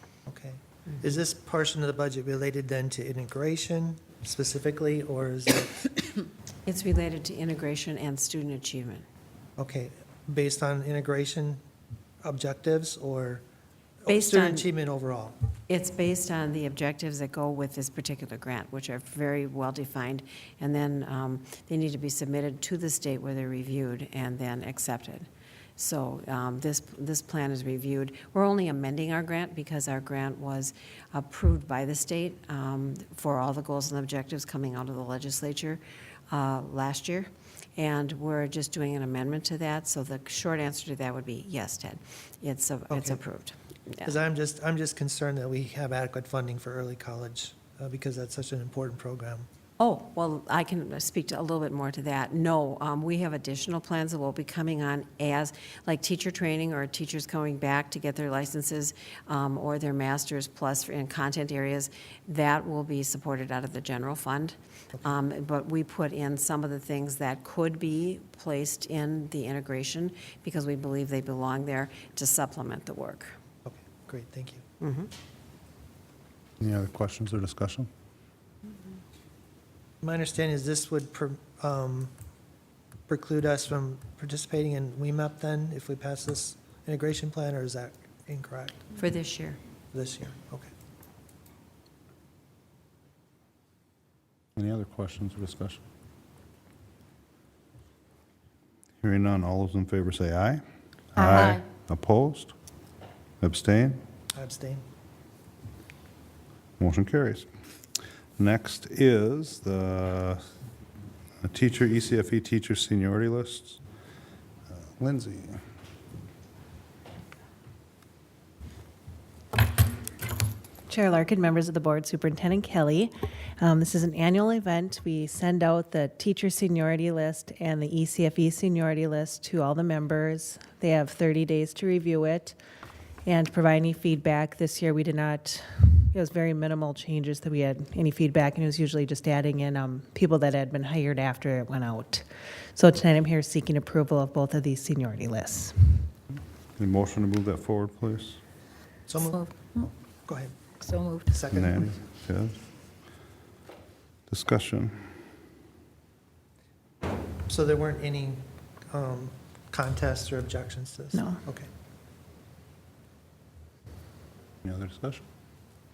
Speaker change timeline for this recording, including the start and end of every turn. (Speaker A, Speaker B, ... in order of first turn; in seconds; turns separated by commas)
Speaker A: 0.3-5.9, Speaker B: 6.7-9.0, Speaker A: 9.6-11.6, Speaker A: 12.2-13.4, Speaker A: 14.0-15.3, Speaker B: 14.1-14.7, Speaker B: 15.7-44.1, Speaker A: 42.9-43.2, Speaker A: 44.0-49.5, Speaker B: 49.8-73.3, Speaker A: 73.6-74.6, Speaker B: 74.8-75.1, Speaker C: 76.6-77.9, Speaker A: 80.0-82.1, Speaker A: 83.1-88.8, Speaker B: 89.0-89.6, Speaker A: 89.9-90.7, Speaker C: 94.6-95.8, Speaker C: 99.0-100.6, Speaker C: 101.1-102.5, Speaker C: 103.4-104.0, Speaker A: 104.3-104.8, Speaker C: 106.8-107.5, Speaker C: 108.4-110.4, Speaker C: 111.4-113.8, Speaker C: 114.7-115.6, Speaker D: 120.9-132.6, Speaker D: 133.2-146.1, Speaker C: 146.8-148.4, Speaker A: 149.1-151.8, Speaker C: 151.5-152.6, Speaker C: 154.3-155.1, Speaker A: 157.5-161.7, Speaker D: 161.1-161.4, Speaker C: 164.6-165.2